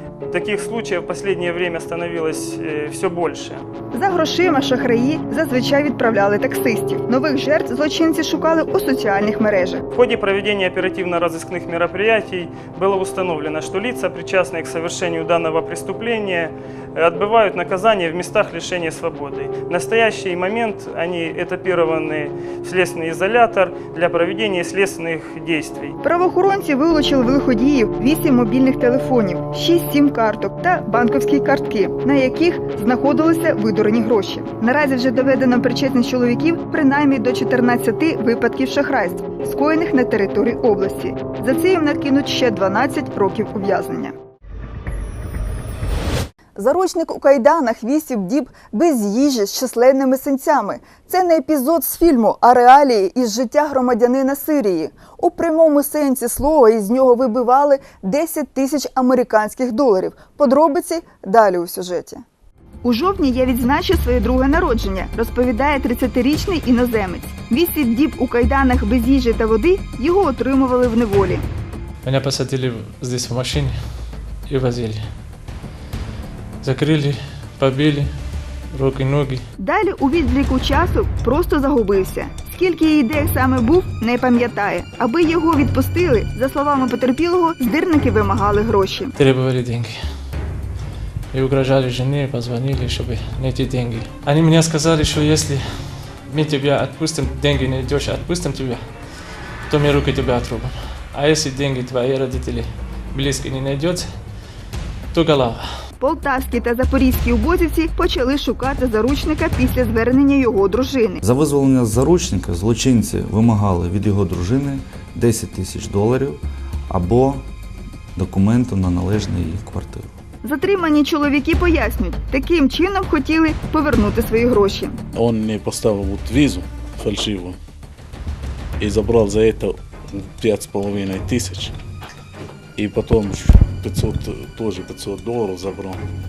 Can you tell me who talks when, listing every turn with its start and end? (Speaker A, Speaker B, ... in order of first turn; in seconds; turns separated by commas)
Speaker A: 0.3-3.6, Speaker B: 3.9-9.8, Speaker A: 9.9-26.0, Speaker B: 26.0-44.1, Speaker B: 46.5-62.2, Speaker B: 62.8-71.4, Speaker C: 72.0-75.1, Speaker C: 76.6-78.1, Speaker C: 78.7-79.4, Speaker B: 79.6-89.1, Speaker C: 89.2-90.0, Speaker C: 91.3-99.1, Speaker C: 99.7-104.1, Speaker C: 105.1-105.7, Speaker B: 106.0-111.2, Speaker D: 111.2-117.5, Speaker D: 118.2-120.1, Speaker B: 120.4-125.0, Speaker E: 125.1-127.6, Speaker E: 128.8-131.7, Speaker E: 132.8-136.0